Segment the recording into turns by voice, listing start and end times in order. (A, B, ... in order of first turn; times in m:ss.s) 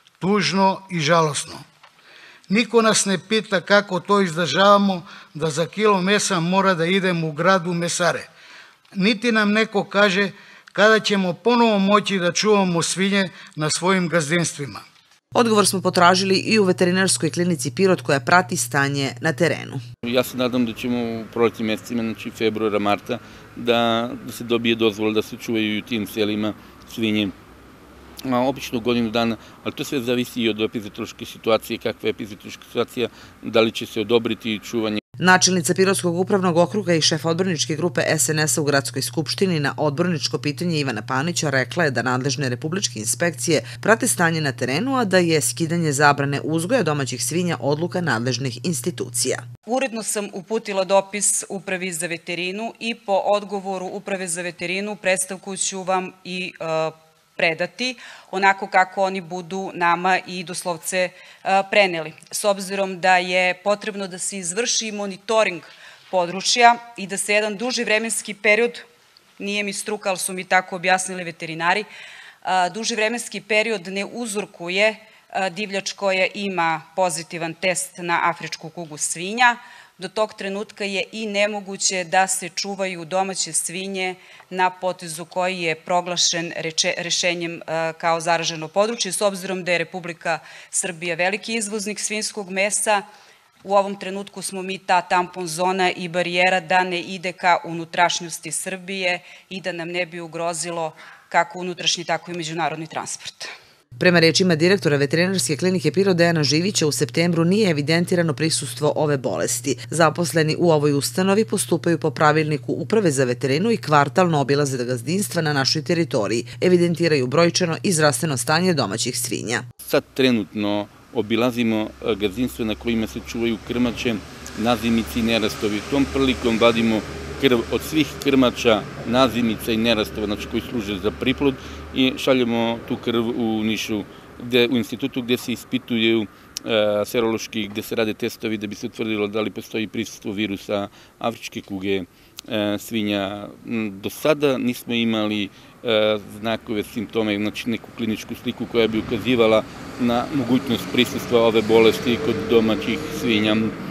0:00.2-0:01.6 A
0:02.5-0:08.3 A
0:09.0-0:14.8 A
0:15.3-0:19.8 B
0:20.0-0:27.3 C
0:28.2-0:35.0 C
0:35.2-0:49.4 B
0:49.7-1:08.8 D
1:09.4-1:11.9 D
1:12.4-1:33.0 D
1:33.6-1:43.5 D
1:44.0-1:59.6 B
1:59.8-2:33.7 C